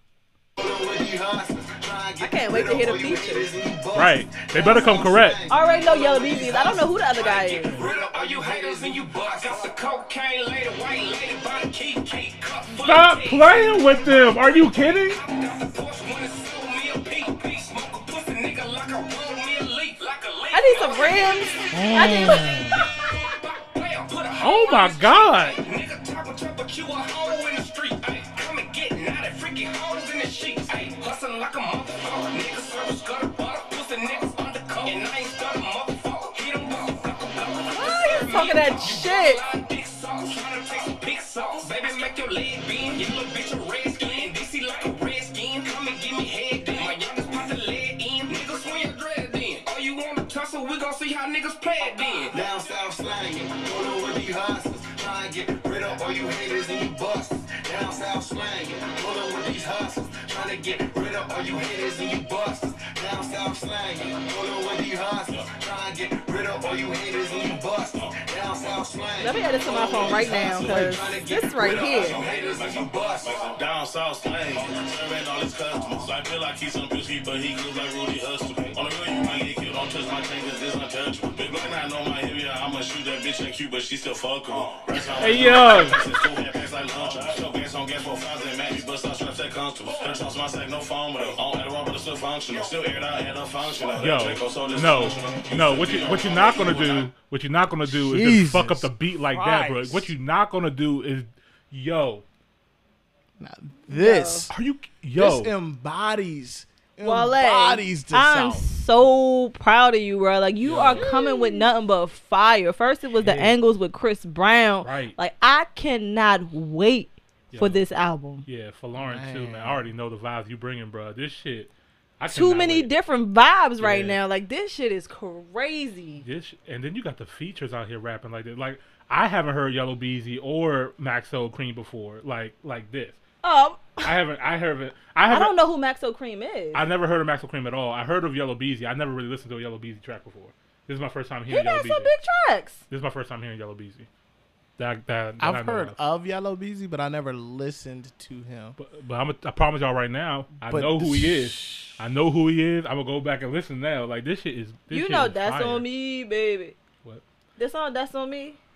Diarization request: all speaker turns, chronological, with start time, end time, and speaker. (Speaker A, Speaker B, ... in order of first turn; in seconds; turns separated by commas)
Speaker A: 0.6-9.7, Speaker B: 2.2-3.5, Speaker C: 3.9-5.4, Speaker B: 5.5-7.8, Speaker D: 7.6-52.3, Speaker C: 12.8-15.2, Speaker B: 20.5-22.8, Speaker E: 21.7-22.8, Speaker C: 24.4-25.6, Speaker B: 37.8-39.4, Speaker A: 52.3-73.5, Speaker B: 69.2-72.2, Speaker F: 70.3-71.0, Speaker F: 71.5-97.1, Speaker C: 85.2-86.0, Speaker C: 93.9-102.2, Speaker E: 97.8-100.1, Speaker E: 103.4-104.5, Speaker B: 103.9-104.5, Speaker C: 104.5-105.5, Speaker E: 105.2-108.7, Speaker B: 107.0-118.4, Speaker C: 110.6-111.1, Speaker E: 110.9-111.6, Speaker C: 113.2-113.6, Speaker C: 114.8-115.2, Speaker C: 117.5-117.8, Speaker C: 118.4-122.9, Speaker E: 119.0-119.8, Speaker B: 122.3-126.2, Speaker C: 123.8-124.2, Speaker C: 126.2-133.2, Speaker B: 133.4-134.1, Speaker C: 134.0-135.6, Speaker B: 135.3-136.8, Speaker C: 136.7-142.1, Speaker B: 141.5-142.8, Speaker C: 142.9-144.1, Speaker C: 144.8-146.0, Speaker E: 145.4-148.8, Speaker C: 148.8-155.9, Speaker E: 150.6-152.0, Speaker B: 154.9-156.8, Speaker B: 157.6-158.6